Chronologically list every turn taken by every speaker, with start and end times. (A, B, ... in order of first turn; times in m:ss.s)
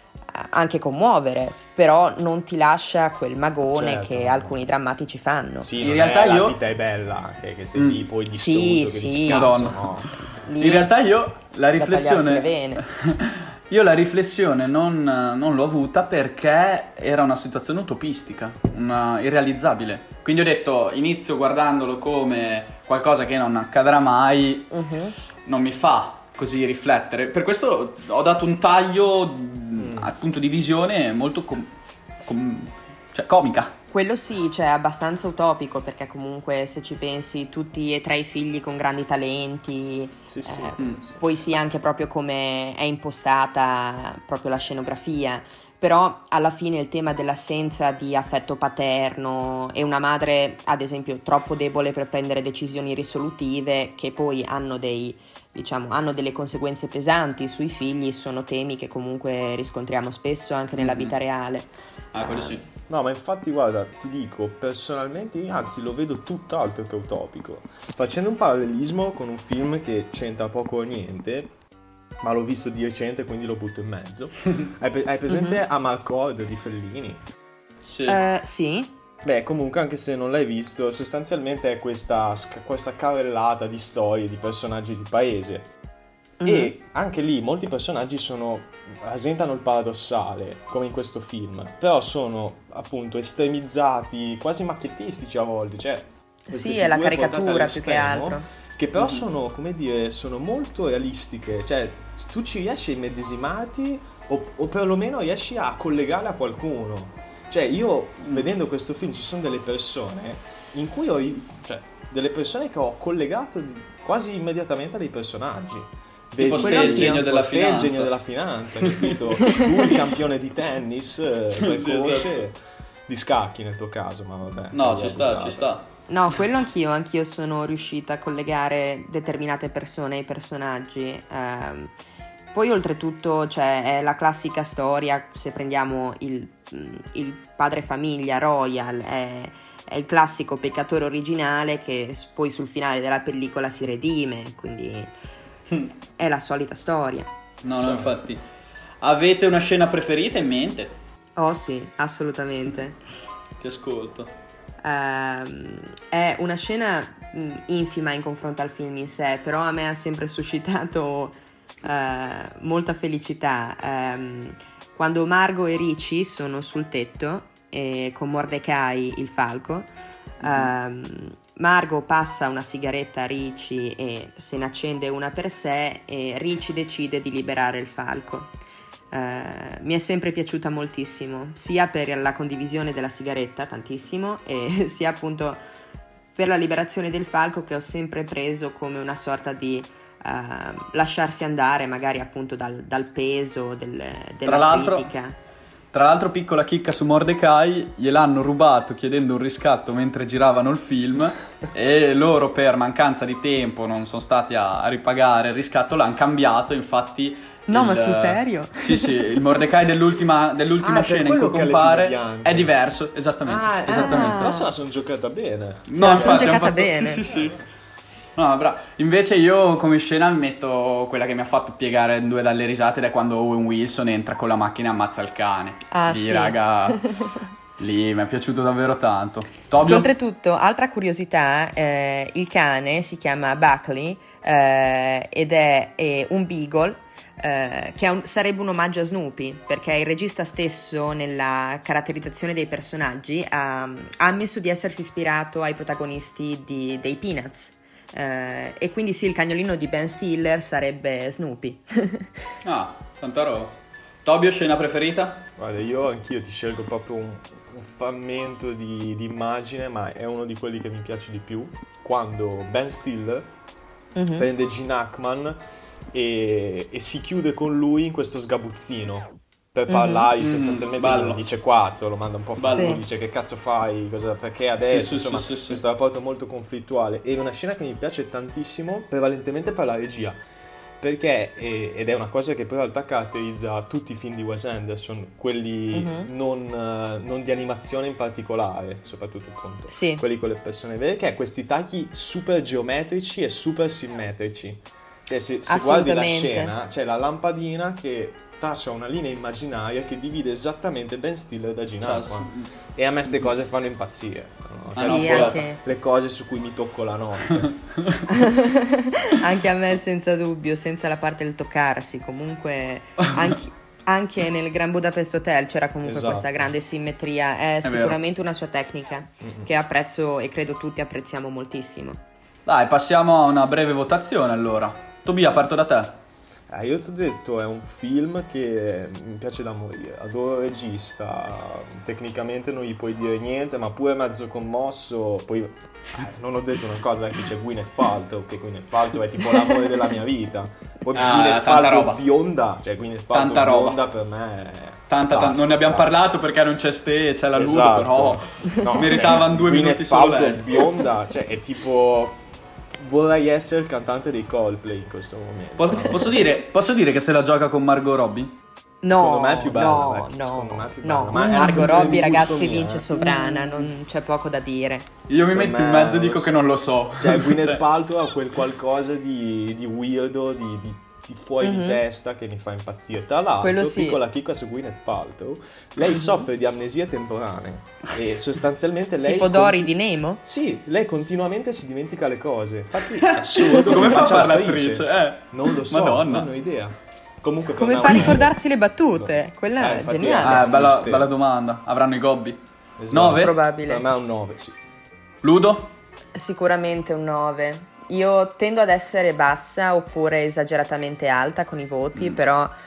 0:00.3-0:05.7 A
0:03.7-0:04.6 B
0:05.6-0:10.1 B
0:05.8-0:06.6 C
0:07.8-0:08.0 C
0:08.3-0:09.6 A
0:09.3-0:24.7 C
0:10.4-0:10.9 A
0:11.8-0:12.8 A
0:24.7-0:25.2 A
0:25.4-0:31.7 C
0:29.8-0:30.1 B
0:32.2-0:33.7 C
0:33.9-1:02.6 A
0:40.3-0:41.2 B
1:00.8-1:01.2 C
1:02.1-1:02.6 C
1:02.9-1:11.5 B
1:12.2-1:17.2 B
1:15.3-1:15.6 A
1:17.9-1:18.2 C
1:18.1-1:18.9 A
1:19.2-1:25.7 B
1:26.4-1:26.7 A
1:26.4-2:05.7 B
1:36.5-1:38.5 A
1:39.0-1:39.2 C
1:56.4-1:58.1 C
1:56.6-1:57.2 A
1:58.8-2:00.1 C
1:59.4-1:59.9 A
2:01.6-2:02.4 C
2:04.7-2:05.9 C
2:06.1-2:11.9 A
2:12.5-2:25.1 A
2:26.2-2:27.3 A
2:27.6-2:28.4 C
2:27.8-2:28.2 B
2:29.0-2:31.0 C
2:31.4-2:33.0 A
2:33.6-2:34.3 C
2:34.8-2:49.9 A
2:50.4-2:58.5 A
2:50.4-2:50.7 C
2:59.1-3:05.6 A
3:06.4-3:15.4 A
3:14.5-3:15.1 C
3:15.9-3:34.4 C
3:27.7-3:29.4 A
3:30.8-3:32.7 B
3:33.4-3:36.4 B
3:33.9-3:34.7 A
3:35.9-3:37.6 C
3:36.0-3:37.2 A
3:38.4-3:50.1 C
3:45.9-3:47.4 A
3:49.8-4:12.4 A
4:12.6-4:15.4 C
4:15.6-4:23.5 B
4:24.2-4:24.5 A
4:24.3-4:25.6 B
4:26.1-4:40.4 B
4:29.9-4:30.3 A
4:30.4-4:31.4 C
4:32.6-4:33.0 C
4:32.7-4:33.0 A
4:34.8-4:35.8 C
4:41.0-5:07.7 B
4:45.9-4:46.3 A
4:49.9-4:50.2 A
4:55.6-4:56.7 A
5:02.0-5:02.7 C
5:05.0-5:05.6 C
5:05.0-5:05.8 A
5:07.7-5:08.2 C
5:08.3-5:22.2 A
5:16.0-5:16.6 B
5:17.8-5:18.2 C
5:19.4-5:19.7 B
5:22.7-5:26.2 C
5:26.7-5:46.3 B
5:41.2-5:42.2 C
5:43.3-5:44.0 C
5:45.1-5:50.8 C
5:47.6-5:52.4 B
5:53.0-5:56.4 B
5:55.8-5:58.5 C
5:59.0-6:05.1 A
5:59.1-6:03.1 B
6:01.3-6:02.2 C
6:03.1-6:03.9 C
6:05.3-6:07.8 C
6:05.5-6:06.5 B
6:07.2-6:19.9 B
6:11.6-6:12.0 A
6:13.6-6:14.2 A
6:16.2-6:16.4 A
6:19.2-6:20.4 A
6:20.4-6:28.6 B
6:23.2-6:26.5 C
6:27.8-6:30.6 A
6:28.0-6:28.4 C
6:29.1-6:31.3 B
6:30.4-6:32.6 C
6:33.0-6:34.8 B
6:33.1-6:33.5 C
6:33.3-6:34.1 A
6:35.4-6:35.9 C
6:36.3-6:42.7 A